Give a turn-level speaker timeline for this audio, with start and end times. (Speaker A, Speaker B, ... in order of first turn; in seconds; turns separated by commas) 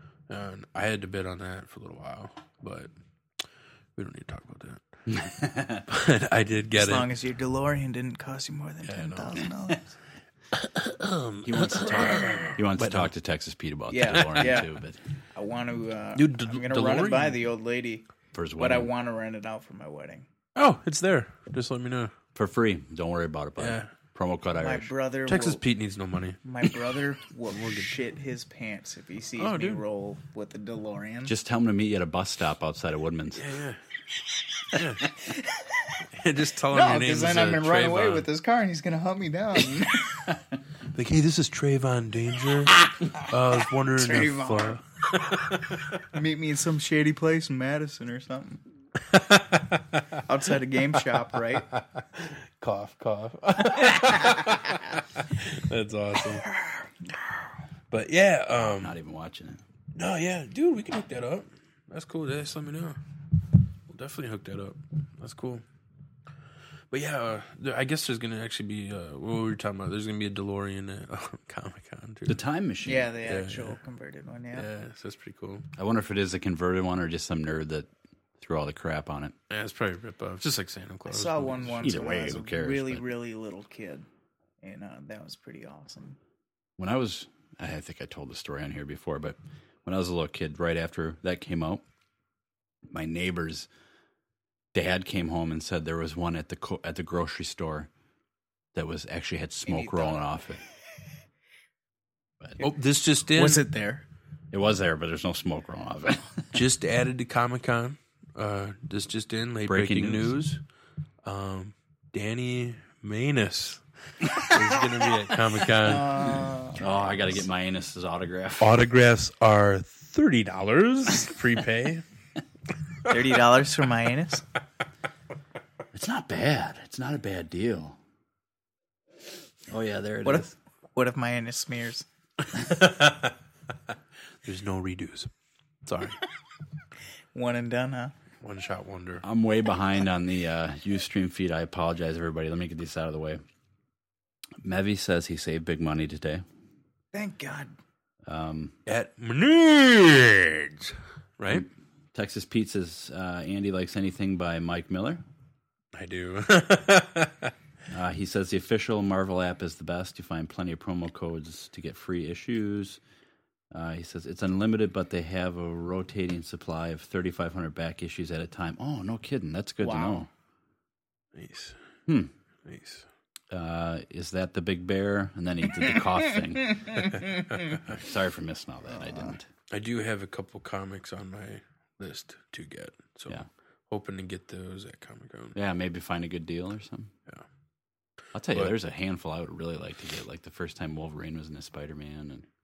Speaker A: 0.3-2.9, Speaker A: 4.0-4.8, Speaker B: 5.1-5.8, Speaker A: 5.9-7.1, Speaker C: 6.8-9.9, Speaker A: 8.8-9.4, Speaker A: 10.5-13.1, Speaker B: 11.4-15.0, Speaker C: 13.9-14.7, Speaker A: 14.1-14.6, Speaker C: 15.3-18.1, Speaker A: 16.1-17.4, Speaker B: 18.3-18.9, Speaker C: 18.6-20.3, Speaker A: 20.6-22.1, Speaker B: 22.3-24.9, Speaker A: 23.6-23.9, Speaker C: 24.5-25.6, Speaker A: 25.3-26.4, Speaker C: 26.4-31.3, Speaker A: 27.5-27.9, Speaker A: 29.4-29.8, Speaker B: 31.2-33.5, Speaker A: 33.3-33.8, Speaker A: 34.7-35.0, Speaker A: 36.1-38.3, Speaker C: 36.7-40.3, Speaker A: 40.9-46.0, Speaker C: 43.9-44.8, Speaker C: 46.1-48.6, Speaker A: 49.1-50.1, Speaker C: 50.3-51.7, Speaker A: 51.7-56.5, Speaker C: 56.5-56.8, Speaker A: 57.9-59.0, Speaker B: 58.5-59.6, Speaker A: 59.9-63.0, Speaker A: 63.9-65.6, Speaker A: 66.9-72.4, Speaker B: 72.3-73.1, Speaker C: 72.8-74.7, Speaker A: 73.2-73.8, Speaker A: 74.5-75.7, Speaker B: 75.8-79.3, Speaker A: 79.5-81.9, Speaker C: 81.1-84.1, Speaker B: 81.8-83.1, Speaker C: 84.6-86.2, Speaker B: 86.8-91.8, Speaker B: 92.9-93.7, Speaker B: 94.7-97.9, Speaker B: 98.7-100.6, Speaker C: 99.7-100.2, Speaker A: 102.6-103.6, Speaker C: 102.6-104.0, Speaker B: 104.5-106.5, Speaker A: 106.5-110.6, Speaker B: 109.7-110.4, Speaker A: 111.2-116.3, Speaker C: 115.8-116.9, Speaker B: 116.7-118.8, Speaker A: 118.6-122.0, Speaker C: 123.1-124.4, Speaker B: 125.9-128.0, Speaker B: 129.7-130.5, Speaker C: 130.2-132.1, Speaker A: 132.6-133.3, Speaker A: 134.4-135.3, Speaker A: 135.8-136.2, Speaker C: 137.3-138.1, Speaker A: 138.4-139.2, Speaker B: 139.2-143.4, Speaker B: 144.6-146.4, Speaker C: 147.1-147.7, Speaker B: 148.2-148.8, Speaker A: 148.9-151.7, Speaker B: 151.5-155.2, Speaker A: 155.9-157.5, Speaker B: 157.9-163.0, Speaker B: 163.7-170.3, Speaker C: 169.8-170.2, Speaker A: 171.3-171.8, Speaker A: 172.6-173.1, Speaker B: 173.5-177.0, Speaker A: 177.1-177.8, Speaker B: 177.9-179.5, Speaker C: 178.9-179.4, Speaker A: 179.7-185.6, Speaker B: 185.5-187.1, Speaker B: 188.3-192.4